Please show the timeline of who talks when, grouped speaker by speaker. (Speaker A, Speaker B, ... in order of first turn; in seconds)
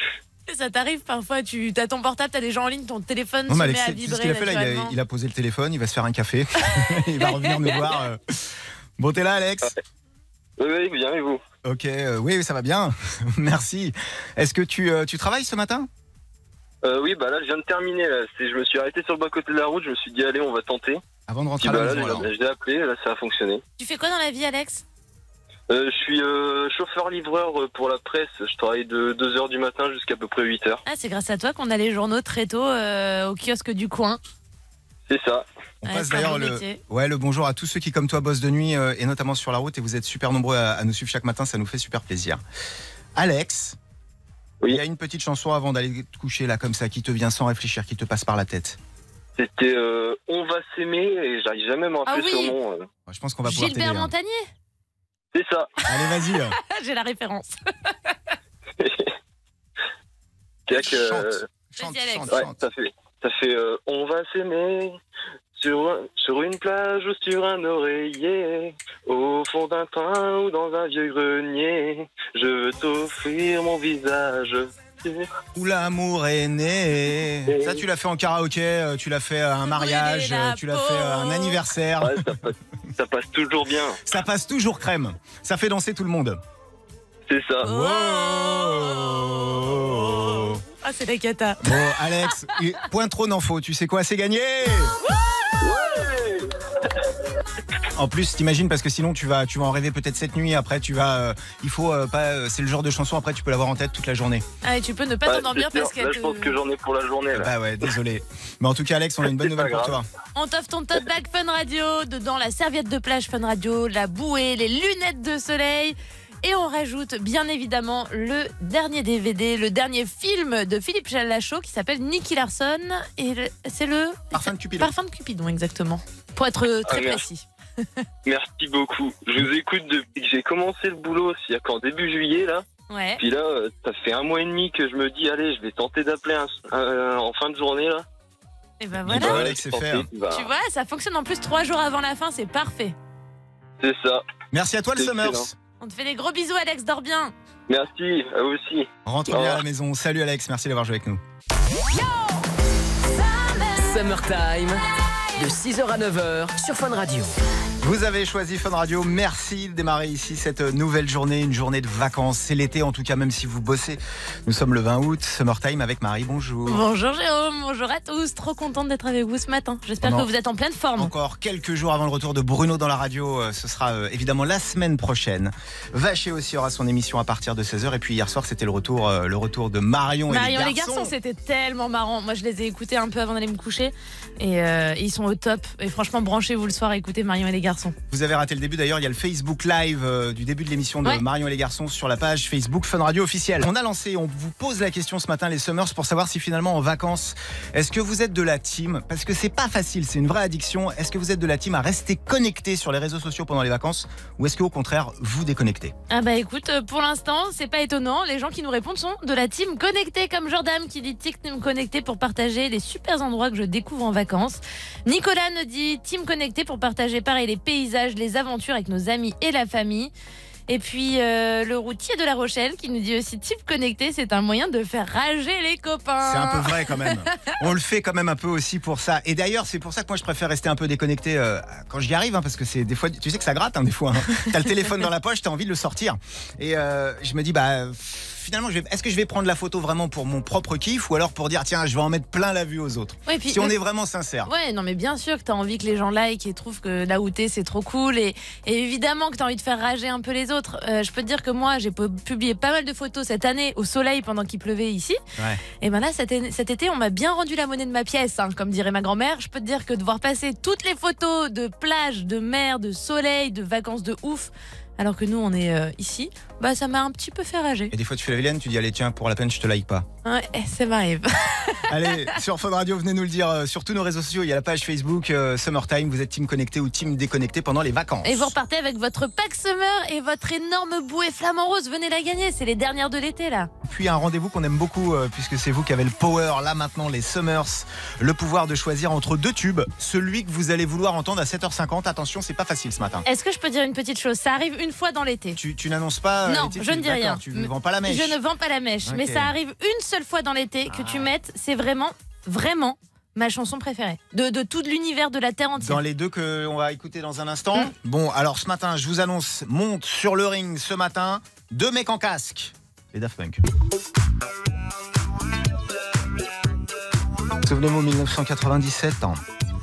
Speaker A: 0.5-4.9, 7.4-7.7, 23.8-24.8, 30.9-34.2, 35.8-36.8, 52.1-52.5, 53.4-54.5, 56.1-57.5, 61.8-62.3, 79.7-81.6, 87.6-91.8, 104.6-106.5, 110.3-127.4, 132.9-133.2, 138.8-139.4, 140.3-142.9, 145.8-147.3, 166.7-171.1, 180.3-187.9, 206.1-220.1, 220.7-227.2, 243.3-243.8, 244.4-255.2, 255.8-267.9, 270.2-272.3, 278.2-283.7, 293.2-295.6, 296.4-306.0
Speaker B: 3.5-9.7, 11.6-15.9, 21.3-22.3, 35.8-42.4, 43.1-43.8, 44.7-48.8, 53.1-54.1, 55.9-56.6, 60.8-62.6, 75.5-82.2, 84.0-86.4, 87.6-90.6, 91.6-94.9, 97.9-104.4, 107.3-110.1, 124.3-124.9, 139.0-140.1, 144.5-145.5, 149.0-151.2, 157.8-166.8, 170.0-170.3, 170.9-181.1, 188.1-205.9, 226.2-244.5, 255.4-255.6, 267.9-270.1, 271.9-278.5, 283.8-293.2, 295.6-298.4, 299.0-299.5, 300.9-301.3, 305.8-313.6, 317.6-319.4
Speaker C: 10.6-11.4, 16.8-21.0, 21.6-23.6, 25.7-30.8, 35.1-35.4, 49.4-52.9, 55.3-55.7, 58.8-59.1, 60.7-61.4, 62.3-65.0, 65.5-75.3, 77.5-77.8, 82.0-84.0, 87.3-87.7, 95.6-96.5, 105.2-107.5, 109.2-110.0, 126.8-127.2, 128.2-132.6, 133.2-138.1, 139.1-140.4, 143.8-144.2, 145.0-145.4, 147.7-149.6
Speaker D: 153.7-154.8, 155.3-157.3